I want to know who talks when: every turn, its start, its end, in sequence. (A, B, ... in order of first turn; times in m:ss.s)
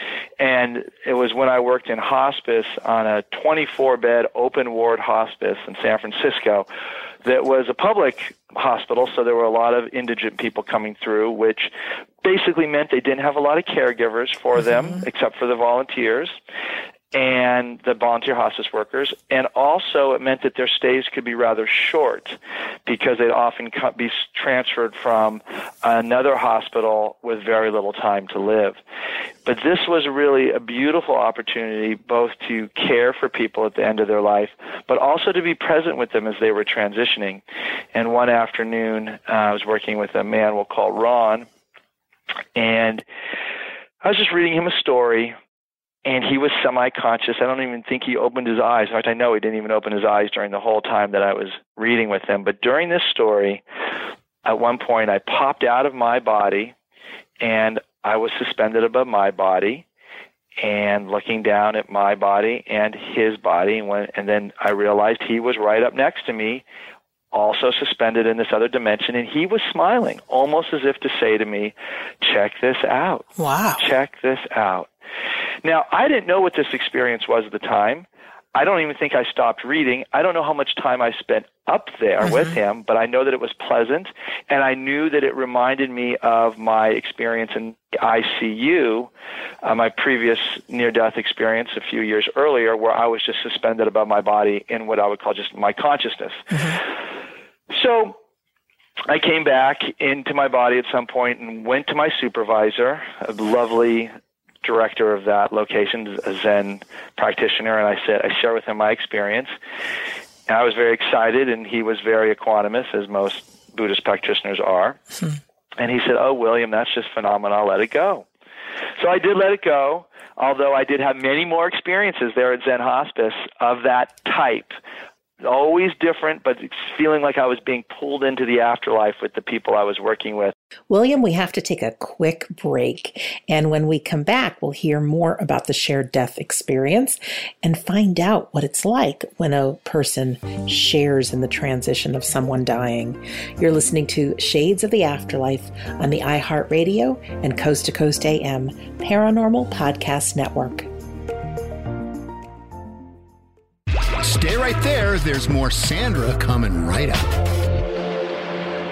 0:00.4-0:06.6 A
0:07.2-0:11.7 A
0:12.2-0:16.4 A
0:14.6-0:15.0 B
0:17.1-0:28.8 A
0:29.4-0:37.4 A
0:37.9-0:41.5 A
0:42.6-0:43.0 A
0:44.0-0:45.3 A
0:46.0-0:53.6 A
0:54.4-0:56.7 A
0:57.4-0:59.8 A
1:00.6-1:06.6 A
1:07.3-1:13.3 A
1:13.4-1:13.8 B
1:13.8-1:14.9 A
1:15.6-1:29.1 A
1:22.2-1:22.6 B
1:29.6-1:36.6 A
1:36.5-1:36.8 B
1:37.7-1:38.2 A
1:39.1-1:49.5 A
1:50.5-1:55.0 A
1:55.8-1:58.2 A
1:59.0-2:04.8 A
2:05.4-2:10.5 A
2:10.9-2:30.9 B
2:34.2-2:37.2 C